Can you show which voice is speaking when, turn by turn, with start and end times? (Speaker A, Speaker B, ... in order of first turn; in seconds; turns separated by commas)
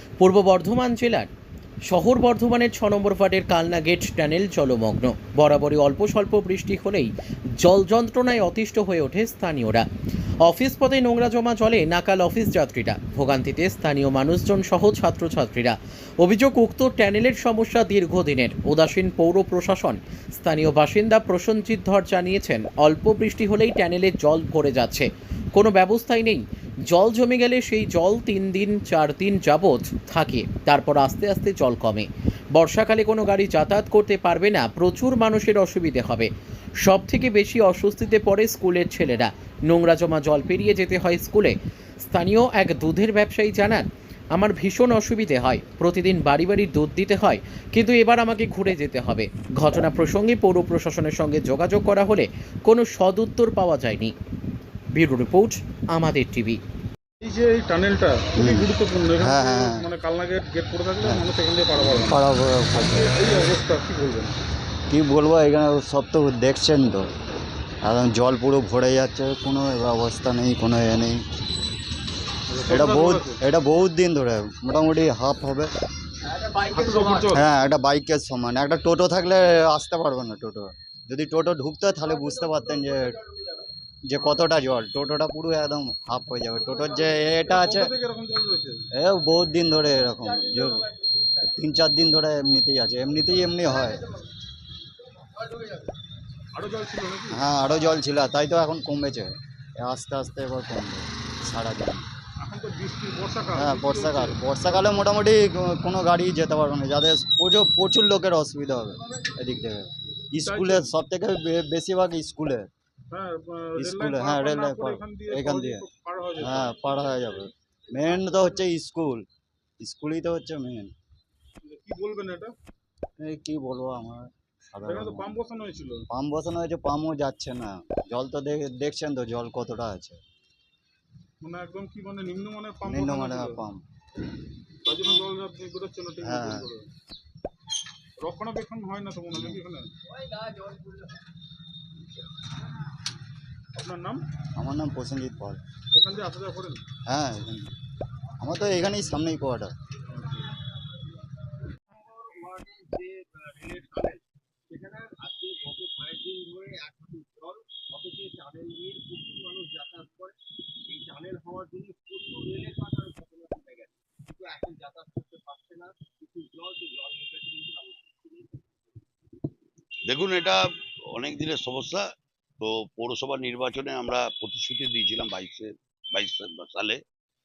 Speaker A: 0.2-1.3, Speaker A: 1.9-9.8, Speaker A: 10.4-36.3, Speaker A: 36.8-54.1, Speaker A: 54.9-56.6, Speaker B: 57.2-62.2, Speaker C: 58.4-59.9, Speaker C: 61.8-63.3, Speaker B: 62.8-64.3, Speaker C: 64.9-67.1, Speaker C: 67.8-71.2, Speaker B: 72.5-73.4, Speaker C: 72.7-75.7, Speaker B: 76.7-77.4, Speaker C: 77.3-83.2, Speaker C: 84.1-87.9, Speaker B: 87.4-88.8, Speaker C: 89.0-90.9, Speaker C: 91.4-94.1, Speaker B: 96.5-97.4, Speaker C: 97.3-102.1, Speaker B: 102.4-104.9, Speaker C: 103.6-112.7, Speaker B: 110.4-110.9, Speaker B: 113.1-117.3, Speaker C: 113.8-115.8, Speaker C: 116.4-119.3, Speaker C: 119.8-120.9, Speaker B: 121.6-122.5, Speaker C: 123.2-125.3, Speaker B: 124.9-126.0, Speaker C: 126.1-130.2, Speaker B: 131.4-133.6, Speaker C: 132.9-133.8, Speaker B: 134.8-136.9, Speaker C: 136.2-136.7, Speaker B: 138.2-139.9, Speaker C: 139.3-139.6, Speaker B: 143.8-144.2, Speaker C: 144.6-145.6, Speaker B: 145.9-146.8, Speaker C: 147.1-147.7, Speaker C: 148.4-149.7, Speaker D: 151.9-168.8, Speaker E: 170.1-172.1, Speaker E: 172.6-177.0